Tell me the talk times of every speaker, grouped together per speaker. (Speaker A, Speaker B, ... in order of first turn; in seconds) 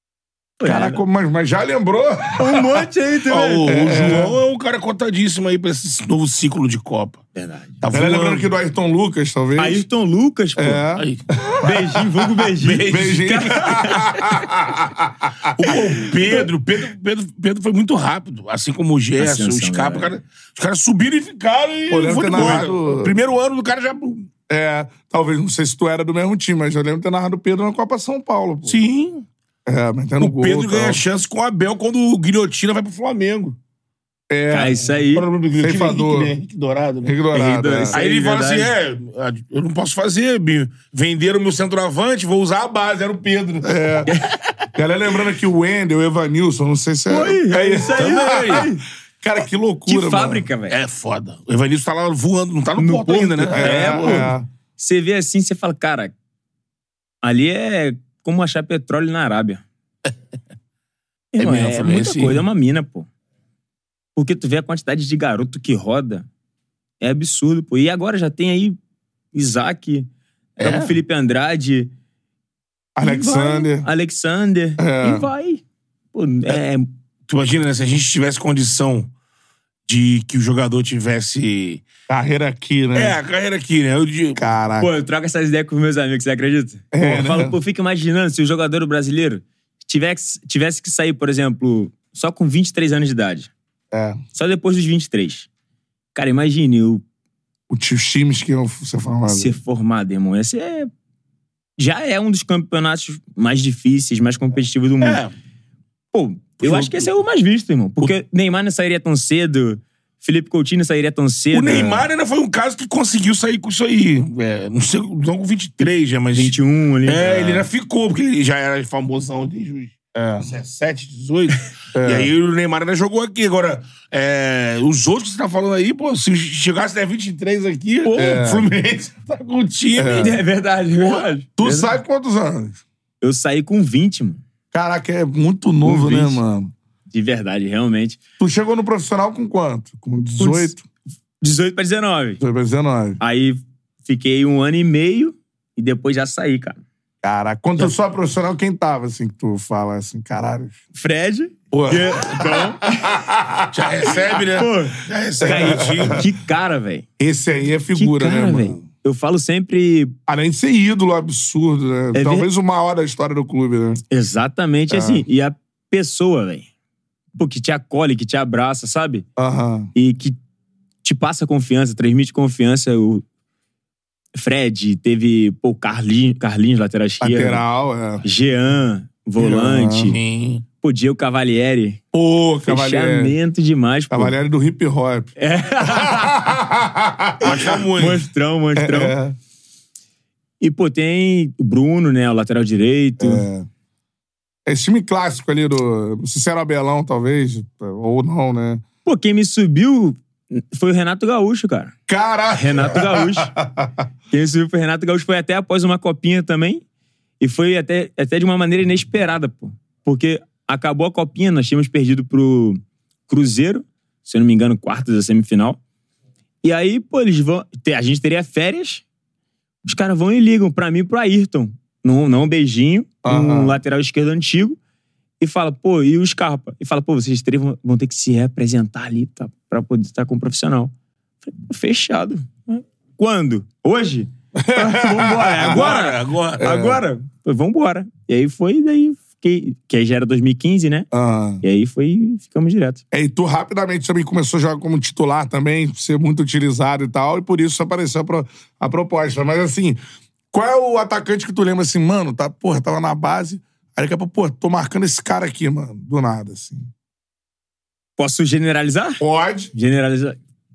Speaker A: 0.6-1.0, 2.4-3.7, 7.4-7.8, 9.6-10.8, 11.6-14.1, 19.2-20.1, 22.3-22.6, 34.5-35.2, 37.3-38.7, 47.1-48.8, 49.9-50.8, 52.8-56.1, 57.2-59.6, 61.3-63.1, 64.2-66.3, 67.0-68.8, 69.3-70.1, 70.6-71.9, 73.0-75.6, 76.1-76.9, 84.8-93.5, 94.3-95.5, 96.1-97.0, 99.3-100.9, 101.8-105.2, 106.1-112.0, 115.8-117.3, 128.0-128.4, 130.1-131.9, 133.2-134.4, 135.8-136.4, 137.1-138.2, 140.4-140.7, 141.4-142.4, 143.2-146.8, 150.9-153.1, 154.5-157.1, 157.9-160.1, 162.1-162.5, 164.1-166.7, 167.4-169.2, 169.9-170.4, 171.0-173.2, 174.3-177.6, 178.2-180.2, 180.8-182.0, 182.6-184.4, 185.4-186.4, 187.9-189.2, 190.6-193.4, 199.0-201.9, 202.5-203.5, 204.3-206.8, 207.4-215.8, 216.6-219.0, 219.8-224.8, 225.4-230.9, 231.4-241.1, 241.6-243.0, 258.2-259.2, 259.7-260.4
Speaker B: 0.6-2.8, 3.6-4.4, 7.9-9.8, 10.6-16.4, 21.9-23.1, 24.5-28.8, 29.6-31.0, 34.3-34.8, 35.6-36.4, 37.0-38.0, 43.6-44.1, 44.7-50.4, 53.5-54.5, 73.0-73.9, 74.8-75.2, 82.1-83.2, 84.4-84.9, 86.9-87.5, 93.9-94.2, 97.7-99.5, 106.6-107.1, 117.2-117.7, 120.1-120.5, 121.9-122.3, 128.1-128.7, 129.9-130.3, 131.6-132.8, 134.7-136.7, 138.4-140.8, 142.4-143.2, 147.2-150.8, 151.7-154.4, 155.4-156.3, 157.2-158.8, 160.3-164.0, 164.9-165.2, 169.4-169.9, 177.2-178.2, 179.4-180.2, 182.1-183.3, 184.1-187.8, 188.8-189.4, 193.2-193.7, 194.7-198.8, 202.1-204.0, 223.2-223.8, 234.5-236.0, 236.6-237.0, 241.1-241.6, 243.1-250.0, 250.5-256.9, 259.2-259.7
Speaker C: 3.3-7.2, 7.8-8.5, 10.9-11.2, 12.6-13.6, 15.6-24.3, 28.6-29.3, 30.2-33.6, 35.1-37.2, 37.9-44.7, 48.0-48.6, 50.7-54.3, 61.4-62.4, 70.6-71.0, 77.3-79.1, 79.9-81.9, 82.9-84.4, 105.0-105.3, 111.5-130.3, 153.7-156.3, 179.9-180.6, 187.4-188.2, 235.6-236.6